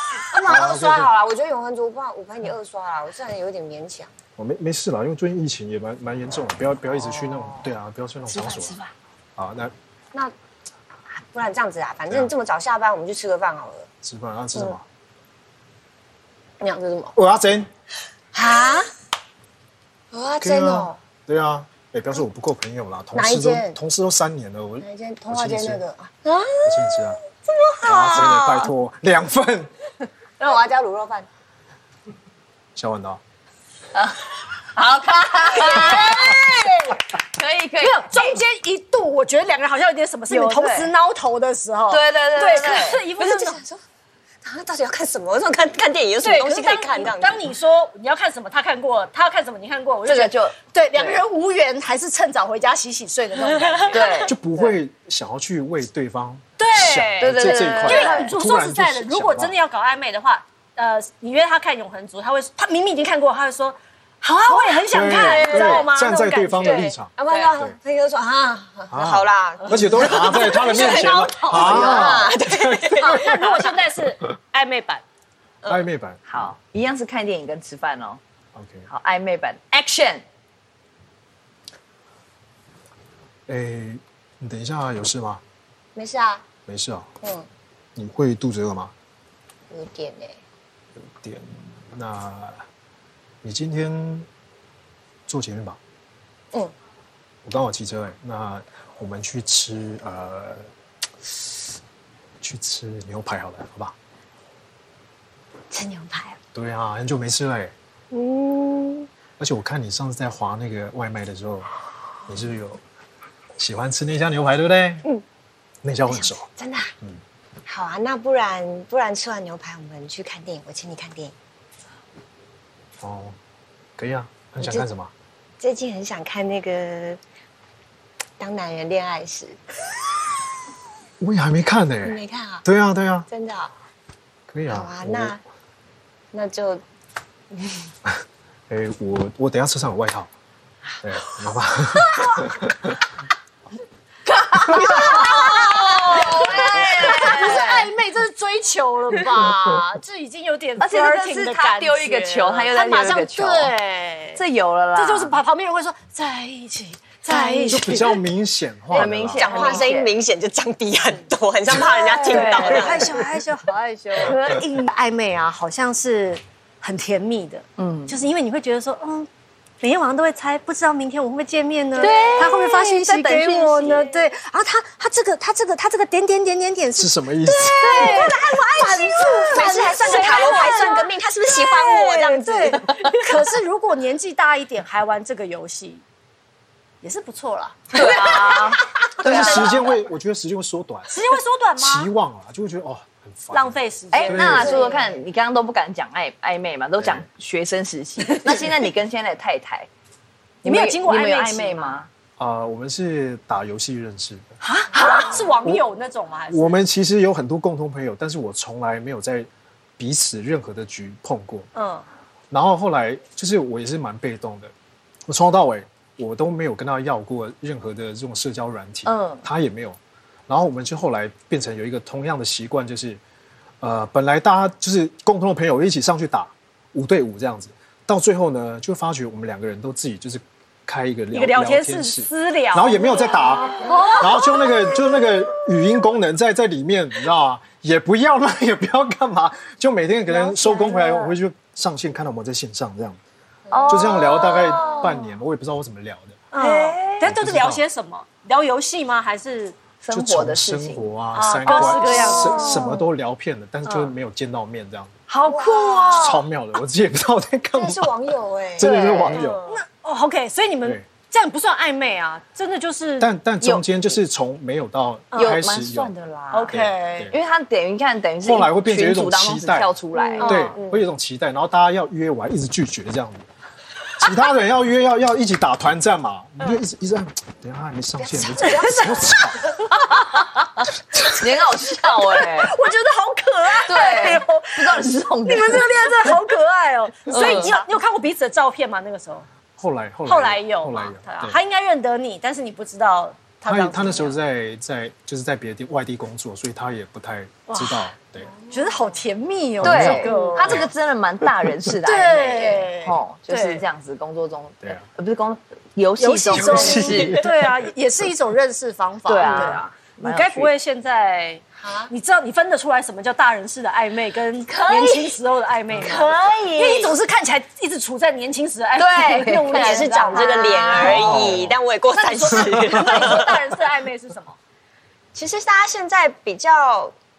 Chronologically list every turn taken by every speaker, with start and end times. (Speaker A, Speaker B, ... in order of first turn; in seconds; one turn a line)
Speaker A: 0.1-4.1
Speaker B: 0.4-1.1
Speaker B: 4.4-8.8
Speaker A: 7.0-7.6
Speaker C: 8.3-8.7
Speaker A: 8.4-8.8
Speaker B: 9.4-9.7
Speaker A: 11.2-13.9
Speaker B: 14.0-14.8
Speaker A: 16.6-17.1
Speaker B: 17.1-17.7
Speaker A: 18.3-18.9
Speaker A: 20.1-21.0
Speaker B: 20.4-25.8
Speaker A: 23.1-23.8
Speaker A: 24.8-28.6
Speaker B: 26.6-27.2
Speaker B: 27.8-29.7
Speaker C: 28.1-28.5
Speaker A: 30.4-31.3
Speaker B: 32.8-33.2
Speaker C: 33.9-38.4
Speaker A: 35.3-37.0
Speaker D: 37.8-43.6
Speaker C: 40.3-40.9
Speaker C: 41.9-43.0
Speaker A: 42.4-43.8
Speaker A: 44.4-47.5
Speaker D: 46.2-54.3
Speaker C: 50.0-51.2
Speaker C: 53.9-54.3
Speaker B: 54.2-59.5
Speaker D: 56.6-66.9
Speaker C: 57.2-58.3
Speaker B: 64.9-67.8
Speaker C: 65.1-65.9
Speaker C: 66.6-67.5
Speaker A: 66.6-73.4
Speaker B: 68.9-73.8
Speaker C: 70.1-72.3
Speaker D: 70.8-72.1
Speaker D: 73.0-75.0
Speaker B: 75.7-76.5
Speaker C: 76.3-78.2
Speaker B: 78.5-78.8
Speaker C: 78.9-80.2
Speaker B: 83.5-85.4
Speaker A: 85.9-86.4
Speaker B: 86.7-87.1
Speaker A: 87.2-87.5
Speaker B: 88.0-88.9
Speaker A: 89.7-90.4
Speaker B: 91.0-92.6
Speaker B: 93.4-94.3
Speaker B: 95.3-95.8
Speaker B: 97.4-100.7
Speaker B: 102.4-103.9
Speaker A: 105.7-106.4
Speaker B: 106.5-107.7
Speaker A: 108.1-109.1
Speaker B: 109.4-111.7
Speaker B: 112.3-112.8
Speaker B: 113.6-115.0
Speaker B: 115.8-116.5
Speaker A: 116.1-116.9
Speaker A: 117.7-121.3
Speaker B: 123.0-123.4
Speaker B: 124.0-125.1
Speaker A: 124.6-124.9
Speaker A: 125.6-127.2
Speaker A: 128.4-129.6
Speaker B: 131.2-133.3
Speaker A: 132.0-132.6
Speaker A: 133.3-133.7
Speaker B: 134.5-135.3
Speaker A: 134.7-135.4
Speaker A: 136.3-136.8
Speaker B: 138.0-140.3
Speaker B: 141.0-143.0
Speaker D: 141.9-142.5
Speaker C: 144.2-147.8
Speaker D: 144.6-154.4
Speaker A: 146.1-147.7
Speaker C: 150.8-153.7
Speaker C: 154.3-155.3
Speaker D: 154.9-158.1
Speaker A: 157.3-157.8
Speaker B: 157.7-159.8
Speaker A: 158.9-163.2
Speaker C: 158.9-160.1
Speaker D: 159.5-159.8
Speaker D: 161.9-169.3
Speaker C: 162.2-163.3
Speaker C: 164.1-164.7
Speaker C: 167.8-168.2
Speaker D: 169.8-186.0
Speaker C: 172.0-174.3
Speaker A: 172.0-172.4
Speaker B: 176.9-178.3
Speaker A: 177.8-183.0
Speaker C: 179.6-180.7
Speaker D: 187.0-190.0
Speaker C: 187.9-189.9
Speaker B: 189.2-191.1
Speaker D: 191.1-192.1
Speaker B: 191.8-194.8
Speaker D: 193.5-194.9
Speaker C: 194.1-199.9
Speaker A: 194.4-195.1
Speaker B: 197.0-197.2
Speaker C: 200.6-202.1
Speaker D: 200.6-202.0
Speaker B: 202.4-204.5
Speaker C: 204.6-205.5
Speaker D: 204.9-206.7
Speaker B: 206.5-211.7
Speaker D: 211.7-212.0
Speaker B: 212.5-214.7
Speaker B: 215.3-223.2
Speaker C: 219.1-219.4
Speaker B: 223.8-243.2
Speaker D: 231.3-235.3
Speaker D: 240.3-241.3
Speaker C: 243.7-245.2
Speaker A: 243.7-245.1
Speaker B: 243.9-246.4
Speaker D: 246.5-249.7
Speaker C: 246.6-247.3
Speaker B: 247.2-247.8
Speaker C: 250.0-251.1
Speaker B: 250.1-255.1
Speaker D: 251.3-252.9
Speaker C: 251.6-253.1
Speaker C: 255.3-256.4
Speaker A: 255.4-256.4
Speaker B: 256.1-258.1
Speaker A: 257.8-259.8
Speaker B: 258.8-259.6
Speaker C: 258.8-259.5
Speaker D: 259.2-263.3
Speaker B: 263.2-266.1
Speaker C: 263.6-264.1
Speaker D: 265.3-265.6
Speaker C: 265.3-266.7
Speaker D: 266.5-267.3
Speaker B: 266.7-267.4
Speaker C: 267.3-270.7
Speaker B: 268.4-269.9
Speaker D: 270.1-270.8
Speaker A: 270.4-271.1
Speaker B: 270.4-273.5
Speaker B: 274.2-279.7
Speaker A: 278.2-279.4
Speaker D: 278.6-280.4
Speaker D: 281.1-289.5
Speaker C: 281.2-282.8
Speaker C: 283.7-286.4
Speaker C: 287.3-287.8
Speaker B: 289.8-291.6
Speaker D: 290.2-294.4
Speaker B: 293.6-298.5
Speaker D: 297.7-298.1
Speaker D: 298.7-300.9
Speaker B: 299.8-300.9
Speaker C: 299.8-307.4
Speaker B: 301.4-301.9
Speaker D: 302.0-303.8
Speaker D: 306.2-321.1
Speaker B: 306.5-307.9
Speaker C: 309.3-310.7
Speaker B: 309.4-309.7
Speaker A: 311.8-312.1
Speaker C: 314.7-315.3
Speaker C: 316.0-317.1
Speaker C: 319.0-321.4
Speaker A: 319.4-323.6
Speaker B: 321.0-321.8
Speaker D: 322.1-324.6
Speaker B: 322.6-323.1
Speaker A: 325.3-327.1